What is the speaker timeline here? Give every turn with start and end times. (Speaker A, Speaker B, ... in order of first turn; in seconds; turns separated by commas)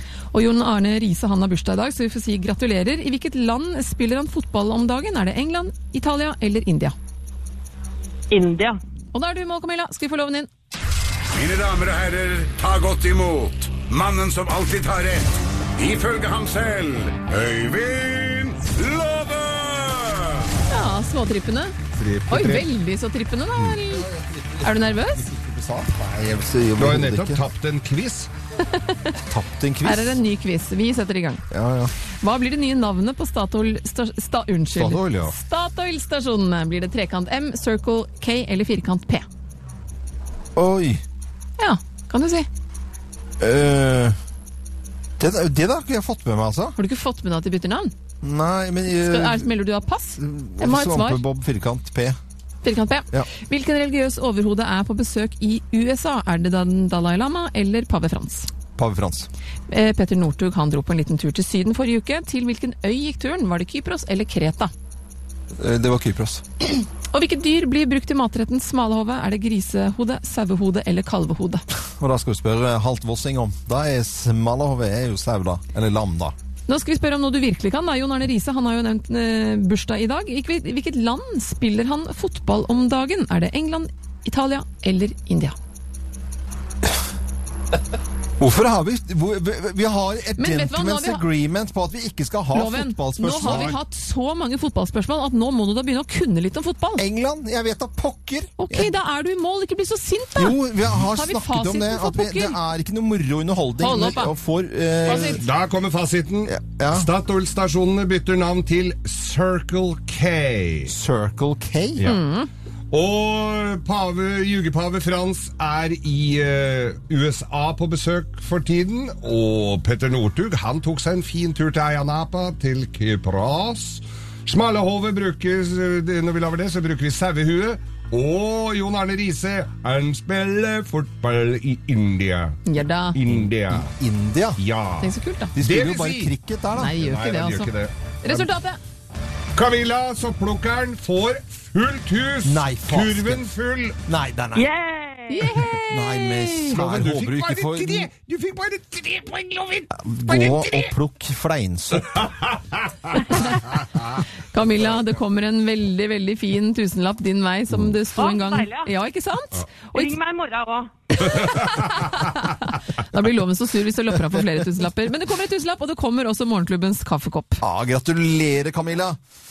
Speaker A: 0.3-6.9, Speaker B: 8.3-8.8, Speaker A: 9.1-10.5, Speaker C: 11.3-20.4, Speaker A: 20.7-21.7, Speaker D: 21.9-22.7, Speaker A: 22.3-24.1, Speaker E: 23.9-24.7, Speaker A: 24.6-25.3, Speaker E: 25.3-27.4, Speaker D: 26.8-28.3, Speaker A: 28.6-29.1, Speaker E: 29.2-30.2, Speaker A: 29.8-31.4, Speaker E: 31.5-31.9, Speaker A: 32.2-39.2, Speaker E: 34.7-35.3, Speaker E: 40.5-41.0, Speaker A: 41.6-42.5, Speaker E: 43.4-44.1, Speaker E: 45.2-46.8, Speaker A: 46.8-47.9, Speaker E: 48.2-49.5, Speaker A: 48.9-51.2, Speaker E: 50.2-52.2, Speaker A: 52.6-58.5, Speaker E: 58.8-59.3, Speaker A: 59.7-64.7, Speaker E: 65.6-66.4, Speaker A: 67.1-71.6, Speaker E: 72.0-76.3, Speaker A: 76.7-85.5, Speaker E: 88.4-93.8, Speaker A: 90.4-91.2, Speaker A: 92.5-97.0, Speaker E: 97.0-98.9, Speaker A: 98.6-102.6, Speaker E: 100.3-105.4, Speaker A: 103.8-104.3, Speaker A: 105.0-105.4, Speaker D: 105.0-110.9, Speaker E: 106.5-107.1, Speaker E: 110.9-112.1, Speaker A: 112.0-112.5, Speaker D: 112.9-133.9, Speaker A: 132.7-133.2, Speaker E: 133.3-134.6, Speaker D: 134.6-137.9, Speaker A: 135.0-135.5, Speaker E: 135.5-137.0, Speaker A: 136.8-137.7, Speaker A: 138.2-138.8, Speaker D: 139.5-144.0, Speaker E: 142.4-143.4, Speaker E: 144.1-144.7, Speaker B: 144.5-145.6, Speaker A: 145.3-146.7, Speaker E: 145.9-148.1, Speaker D: 146.7-150.9, Speaker E: 150.0-152.3, Speaker D: 152.1-153.1, Speaker A: 154.5-160.1, Speaker B: 158.1-158.9, Speaker B: 159.9-161.2, Speaker A: 161.2-167.6, Speaker D: 161.4-161.8, Speaker E: 167.6-169.2